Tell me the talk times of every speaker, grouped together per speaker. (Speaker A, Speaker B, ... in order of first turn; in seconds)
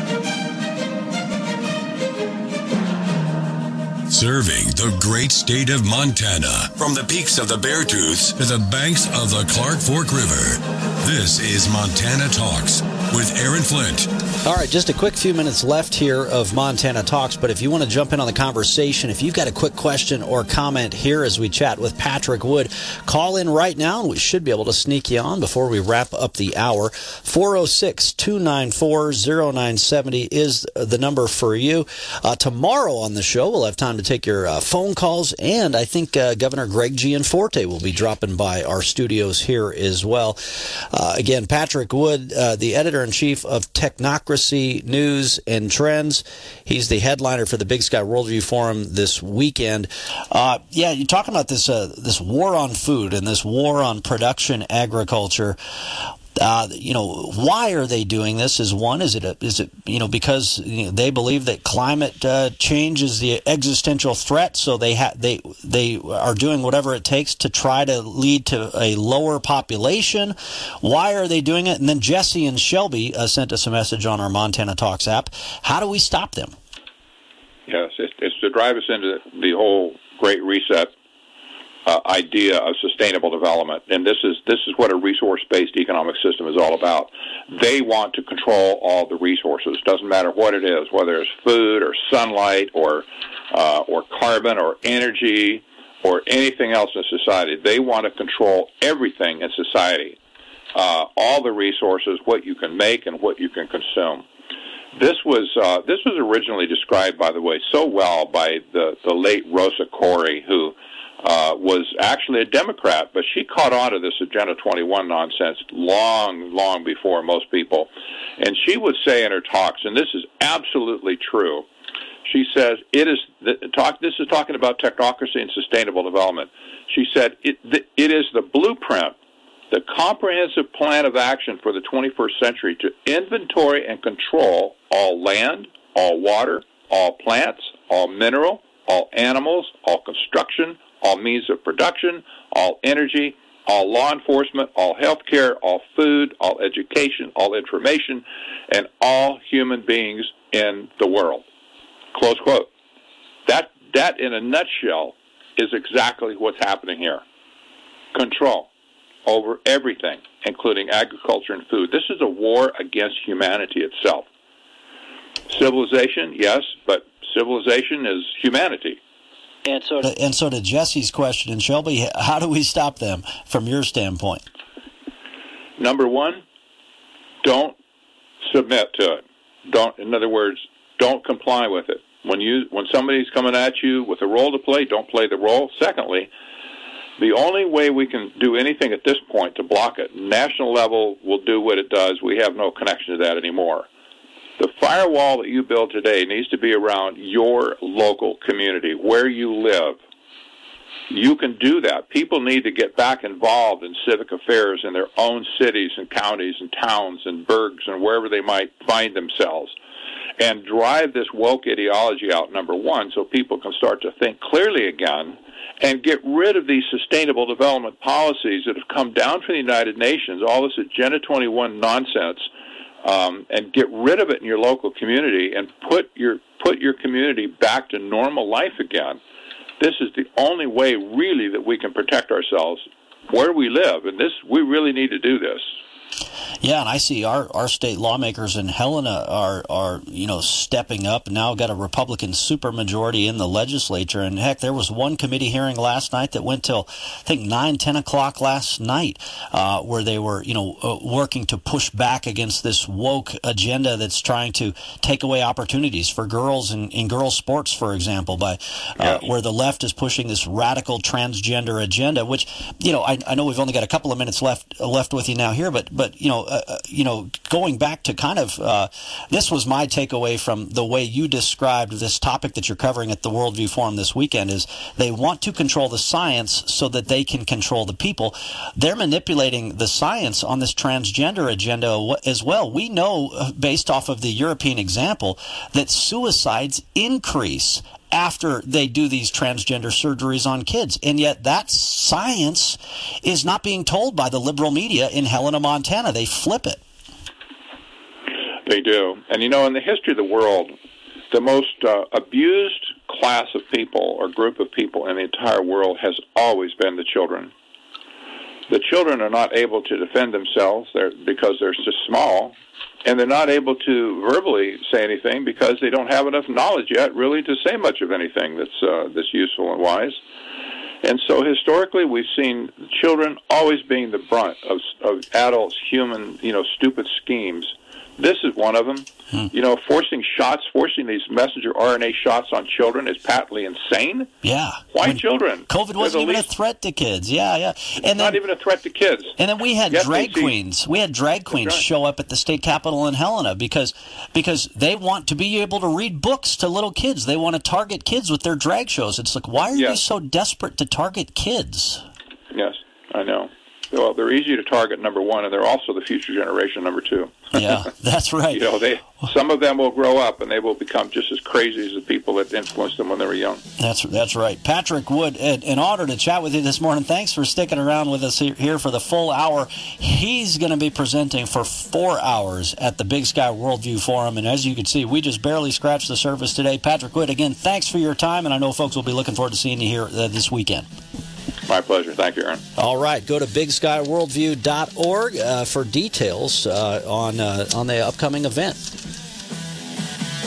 Speaker A: 4.1-14.1
Speaker B: 14.4-76.5, 169.6-174.4, 236.6-296.8, 334.4-338.4, 339.4-352.0, 357.5-358.6, 363.8-380.9, 382.8-389.0
Speaker C: 77.7-80.9, 81.8-100.2, 100.7-104.2, 104.9-121.6, 122.2-129.1, 129.7-151.4, 152.1-152.7, 153.4-157.2, 158.1-158.7, 159.2-164.2, 165.5-169.0, 175.8-176.4, 177.4-177.8, 178.4-186.3, 187.2-193.9, 194.6-200.0, 201.1-209.7, 210.4-222.5, 223.0-229.2, 229.8-235.7, 298.6-300.7, 301.3-307.5, 308.7-320.2, 321.0-334.3, 334.9-336.5, 338.1-339.4, 339.9-340.5, 341.5-341.8, 349.7-350.0, 352.5-357.6, 358.5-363.6, 381.7-382.6